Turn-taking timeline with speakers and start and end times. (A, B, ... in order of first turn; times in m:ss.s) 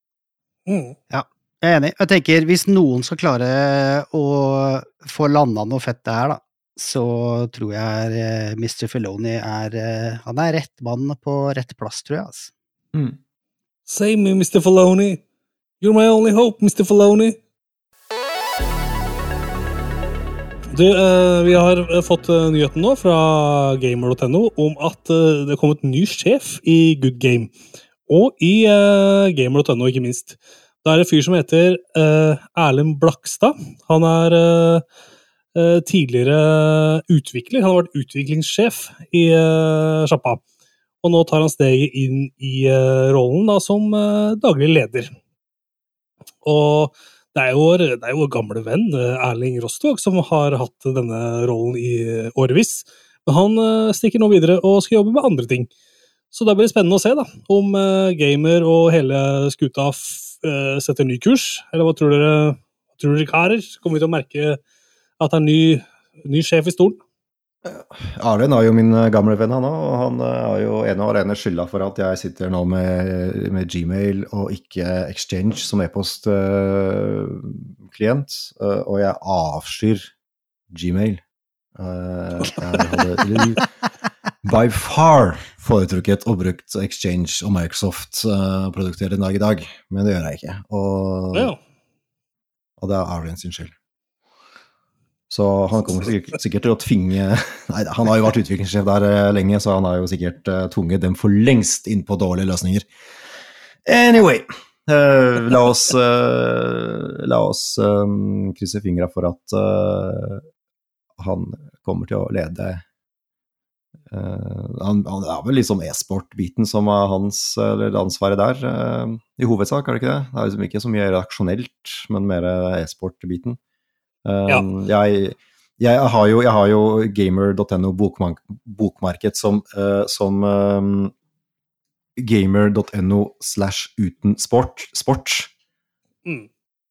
0:00.7-0:01.0 A
0:01.1-0:12.5 B
0:13.9-0:15.2 A
0:15.8-0:17.4 A
0:20.7-0:27.5 A
0:28.1-0:34.8 A
0:35.5-0:40.4 A
0:41.0-0:45.1 A
0:46.4-0:55.7 A
0:56.3-1:04.6 A
1:05.2-1:07.0 A
1:07.6-1:20.1 C
1:20.7-1:21.2 C
1:21.8-1:23.7 C
1:24.4-1:31.5 C
1:31.3-1:31.6 A
1:32.8-1:33.7 C
1:35.3-1:42.9 C
1:43.8-1:50.4 C
1:51.2-1:52.8 C
1:54.1-2:03.6 C
2:04.2-2:11.1 C
2:12.2-2:15.5 C